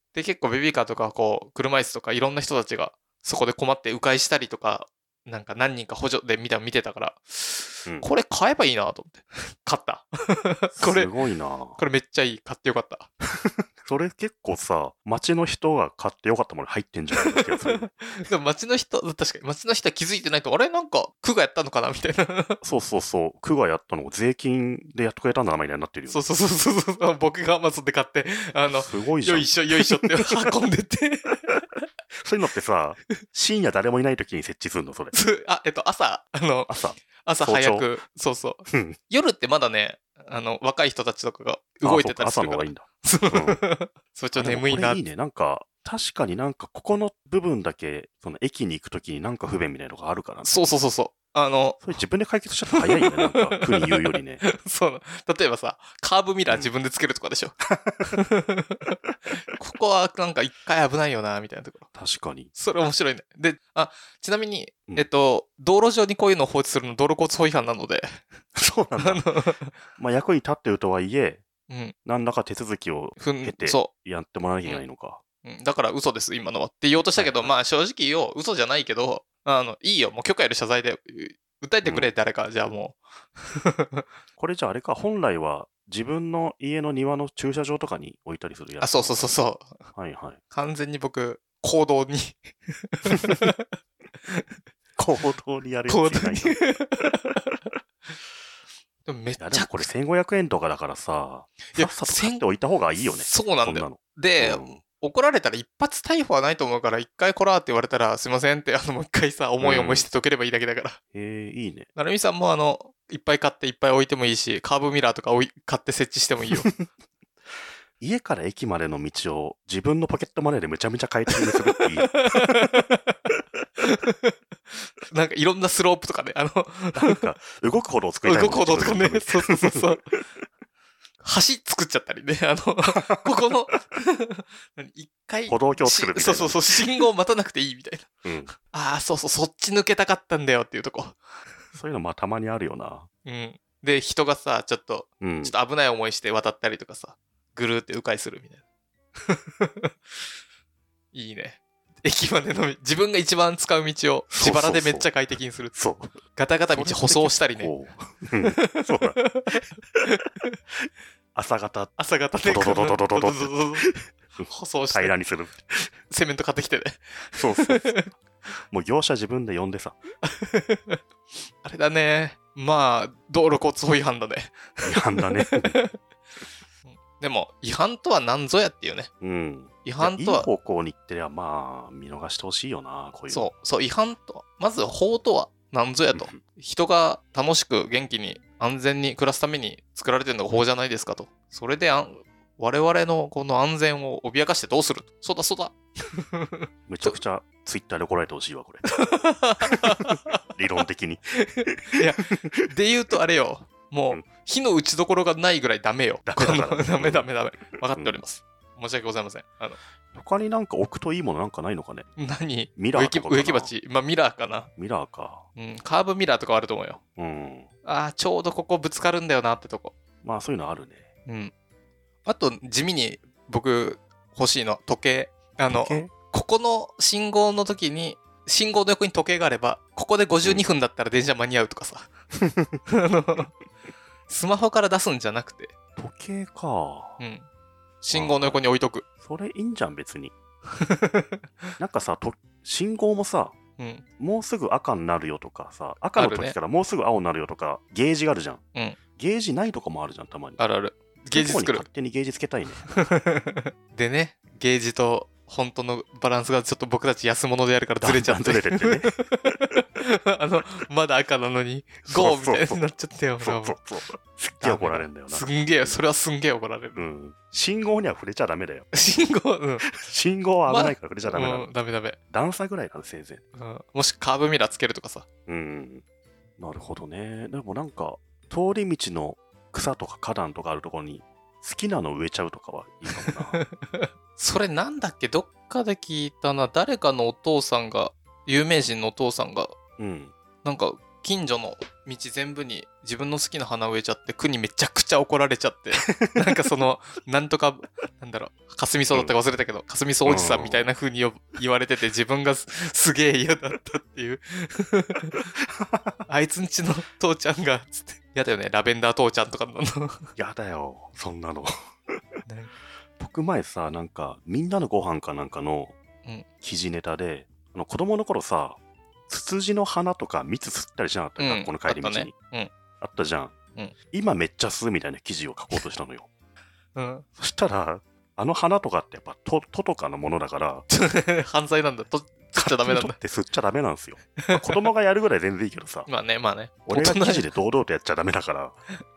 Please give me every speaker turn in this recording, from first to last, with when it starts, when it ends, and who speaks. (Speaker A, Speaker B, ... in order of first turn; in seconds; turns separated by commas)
Speaker A: 0.1-11.1, Speaker B: 10.8-11.8, Speaker A: 11.8-13.1, Speaker B: 13.3-17.9, Speaker A: 17.2-22.6, Speaker B: 22.6-26.2, Speaker A: 26.1-31.6, Speaker B: 28.6-30.4, Speaker B: 32.2-35.1, Speaker A: 35.1-45.0, Speaker B: 36.7-37.9, Speaker B: 38.7-39.0, Speaker B: 41.8-43.6, Speaker B: 44.4-50.6, Speaker A: 50.4-51.8, Speaker B: 51.8-54.4, Speaker A: 52.7-61.9, Speaker B: 57.7-58.1, Speaker B: 61.9-62.5, Speaker A: 62.5-68.2, Speaker B: 68.5-69.3, Speaker A: 69.0-69.7, Speaker B: 70.0-71.4, Speaker A: 71.7-71.9, Speaker B: 72.0-75.2, Speaker A: 73.2-73.9, Speaker A: 75.4-84.0, Speaker B: 77.1-77.5, Speaker B: 81.8-82.1, Speaker B: 84.4-89.2, Speaker A: 88.8-89.9, Speaker B: 89.9-90.4, Speaker A: 90.5-93.7, Speaker B: 95.0-97.0, Speaker A: 95.9-97.6, Speaker A: 99.0-99.9, Speaker B: 99.4-104.8, Speaker A: 101.7-102.4, Speaker A: 103.0-111.0, Speaker B: 109.6-110.1, Speaker B: 111.1-111.9, Speaker A: 112.0-116.7, Speaker B: 118.0-122.7, Speaker A: 121.8-123.2, Speaker A: 123.8-124.3, Speaker A: 125.1-127.2, Speaker B: 126.9-130.2, Speaker A: 128.2-130.0, Speaker A: 131.2-141.2, Speaker B: 132.9-133.3, Speaker B: 135.5-136.8, Speaker B: 138.2-138.5, Speaker B: 141.7-143.1, Speaker A: 143.2-148.6, Speaker B: 145.2-145.5, Speaker A: 149.2-149.9, Speaker A: 151.1-155.8, Speaker B: 154.3-155.1, Speaker B: 155.7-156.2, Speaker A: 156.3-157.7, Speaker B: 156.7-159.3, Speaker A: 158.6-160.5, Speaker B: 161.3-165.9, Speaker A: 162.0-163.9, Speaker A: 164.4-165.1, Speaker A: 166.1-168.1, Speaker B: 167.3-168.2, Speaker B: 168.7-170.0, Speaker A: 170.2-171.0, Speaker A: 171.6-176.0, Speaker B: 174.8-175.8, Speaker A: 176.8-179.1, Speaker B: 179.2-183.5, Speaker A: 179.8-180.5, Speaker A: 183.3-197.2, Speaker B: 186.1-186.4, Speaker B: 196.9-199.1, Speaker A: 198.8-200.4, Speaker B: 199.6-202.6, Speaker A: 201.5-209.8, Speaker B: 206.2-208.2, Speaker B: 210.1-212.1, Speaker A: 212.2-214.7, Speaker B: 212.8-213.7, Speaker B: 214.8-215.4, Speaker A: 215.6-217.0, Speaker B: 217.2-217.7, Speaker A: 217.8-219.9, Speaker B: 220.2-221.1, Speaker A: 221.3-221.5, Speaker A: 222.2-232.1, Speaker B: 225.7-226.1, Speaker B: 230.4-230.7, Speaker B: 232.4-232.8, Speaker A: 232.9-233.5, Speaker A: 234.3-235.7, Speaker B: 236.0-237.2, Speaker A: 237.2-237.4, Speaker A: 238.0-239.0, Speaker B: 238.1-238.6, Speaker B: 239.2-240.3, Speaker A: 240.8-241.7, Speaker B: 241.8-243.6, Speaker A: 243.8-244.0, Speaker B: 244.2-248.6, Speaker A: 246.2-246.6, Speaker B: 249.2-250.6, Speaker A: 250.6-251.8, Speaker B: 251.3-252.8, Speaker A: 252.8-263.8, Speaker B: 258.0-259.1, Speaker B: 262.1-262.8, Speaker B: 263.4-266.0, Speaker A: 264.4-267.0, Speaker B: 266.9-268.9, Speaker A: 268.9-269.8, Speaker B: 269.9-271.7, Speaker A: 270.7-272.2, Speaker B: 272.3-273.4, Speaker A: 273.6-275.2, Speaker B: 275.5-276.0, Speaker B: 276.6-283.6, Speaker A: 283.2-289.7, Speaker B: 290.0-290.3, Speaker A: 290.6-305.4, Speaker B: 296.0-296.7, Speaker B: 300.2-300.9, Speaker B: 305.8-306.2, Speaker A: 306.3-310.3, Speaker B: 310.4-312.2, Speaker A: 312.4-312.7, Speaker B: 313.2-316.0, Speaker B: 316.6-322.3, Speaker A: 321.4-322.7, Speaker B: 323.0-323.5, Speaker B: 324.1-326.3, Speaker A: 326.9-327.2, Speaker B: 327.4-330.9, Speaker A: 330.9-333.2, Speaker B: 332.6-336.1, Speaker A: 334.4-334.9, Speaker A: 336.1-337.5, Speaker B: 336.9-338.8